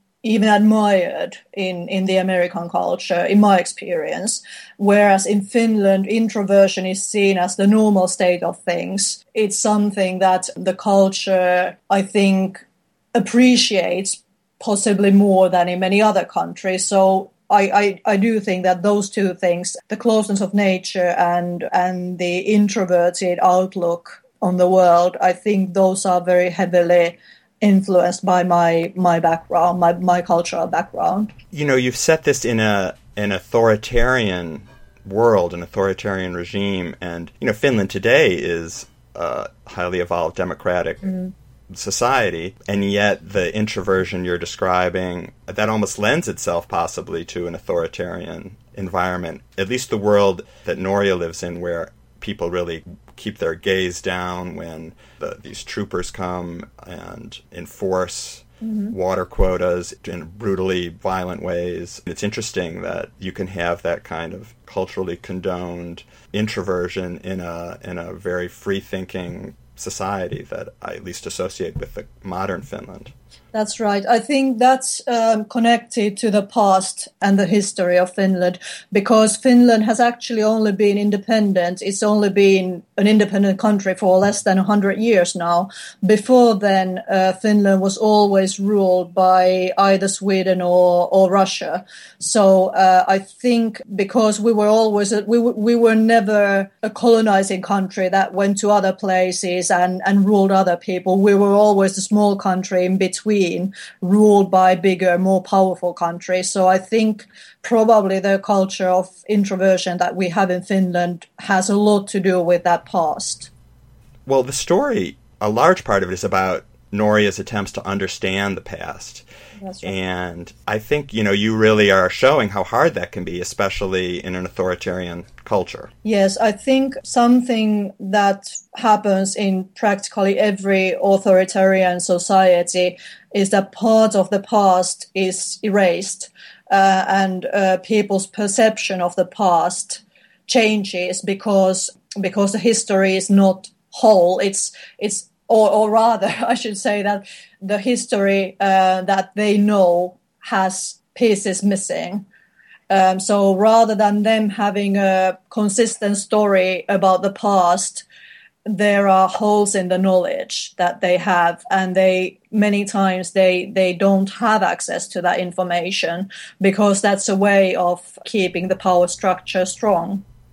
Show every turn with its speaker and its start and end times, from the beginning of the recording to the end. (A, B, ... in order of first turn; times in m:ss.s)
0:00.2-0:31.3 A
0:31.5-0:41.1 B
0:41.7-1:13.1 B
0:58.6-0:58.9 A
1:13.5-1:53.5 A
1:54.2-1:59.2 B
1:59.6-1:59.9 A
1:59.8-2:05.9 B
2:06.0-2:32.2 A
2:32.9-2:38.0 A
2:38.6-2:50.2 A